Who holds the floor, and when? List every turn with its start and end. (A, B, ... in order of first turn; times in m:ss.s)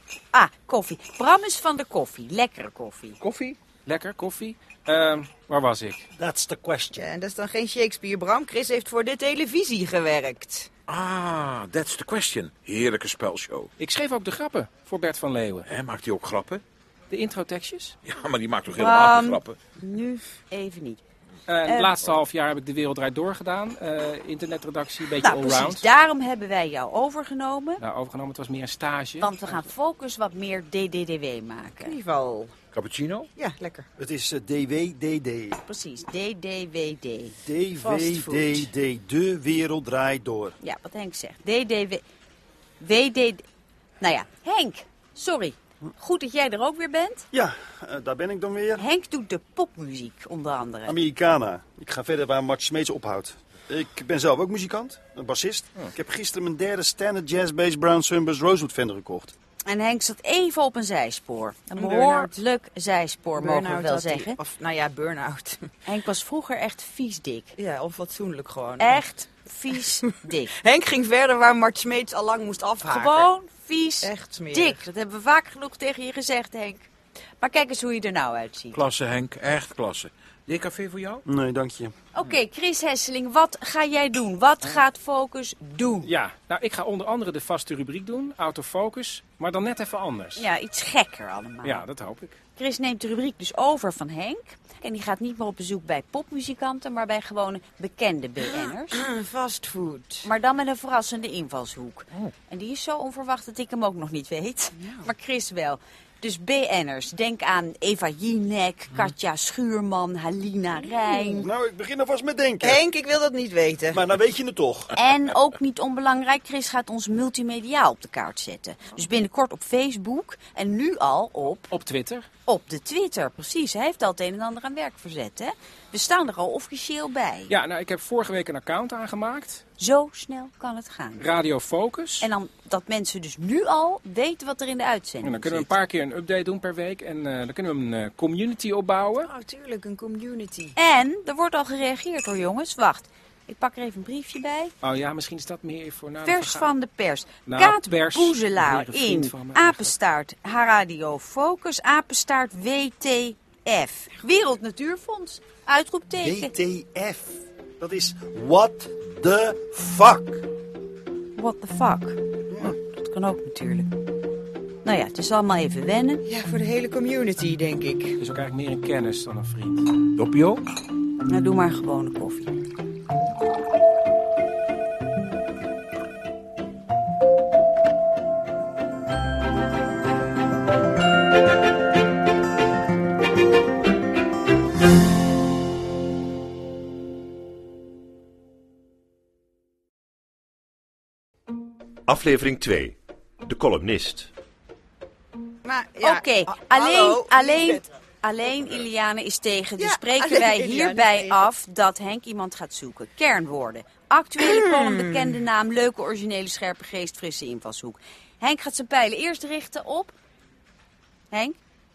0:00.3-0:03.2 A
0:03.2-0:03.6 B
0:03.8-0:06.1 C
0:06.2-0:07.0 D
0:07.0-0:10.7 E
0:10.9-0:13.7 B
0:13.8-0:15.7 C
0:15.6-0:16.6 B
0:17.1-0:17.9 C
0:18.0-0:19.6 B
0:18.7-0:21.0 A
0:21.5-0:25.8 C
0:21.7-0:22.1 A
0:25.2-0:27.8 A
0:27.8-0:29.5 C
0:29.2-0:31.9 A
0:31.8-0:32.5 E
0:32.7-0:33.3 B
0:33.4-0:33.9 E
0:34.0-0:35.6 D
0:35.6-0:38.6 A
0:37.4-0:40.6 D
0:40.6-0:42.0 A
0:42.8-0:43.4 A
0:44.0-0:47.3 A
0:47.3-0:48.8 D
0:48.8-0:50.9 A
0:50.9-0:59.3 D
0:59.6-1:04.4 A
1:01.8-1:02.3 E
1:03.4-1:05.6 E
1:05.8-1:07.5 A
1:07.6-1:09.0 E
1:08.8-1:10.5 A
1:10.6-1:13.3 E
1:12.8-1:16.9 A
1:14.0-1:14.8 E
1:17.4-1:18.8 A
1:18.7-1:21.2 B
1:21.2-1:21.9 D
1:22.1-1:26.1 A
1:26.0-1:30.4 C
1:30.4-1:31.8 A
1:31.6-1:32.4 C
1:32.6-1:39.0 A
1:38.4-1:40.3 E
1:40.2-1:51.5 A
1:44.8-1:45.1 E
1:51.4-1:52.8 D
1:52.6-1:54.0 E
1:53.9-1:54.9 D
1:55.0-2:01.7 A
2:01.7-2:02.2 C
2:02.4-2:07.5 A
2:07.5-2:09.6 C
2:09.8-2:11.2 A
2:11.2-2:12.3 C
2:12.2-2:15.7 A
2:15.2-2:19.3 C
2:19.2-2:20.7 E
2:20.7-2:24.7 A
2:24.8-2:26.7 C
2:26.2-2:36.5 A
2:27.5-2:29.9 C
2:36.2-2:40.4 D
2:41.4-2:43.9 A
2:42.5-2:42.8 D
2:44.8-2:46.2 A
2:46.2-2:48.2 E
2:48.2-2:50.0 C
2:50.2-2:50.6 B
2:51.3-2:52.5 A
3:12.0-3:14.3 F
3:15.6-3:17.8 E
3:16.0-3:30.1 A
3:19.8-3:21.4 E
3:24.4-3:25.4 E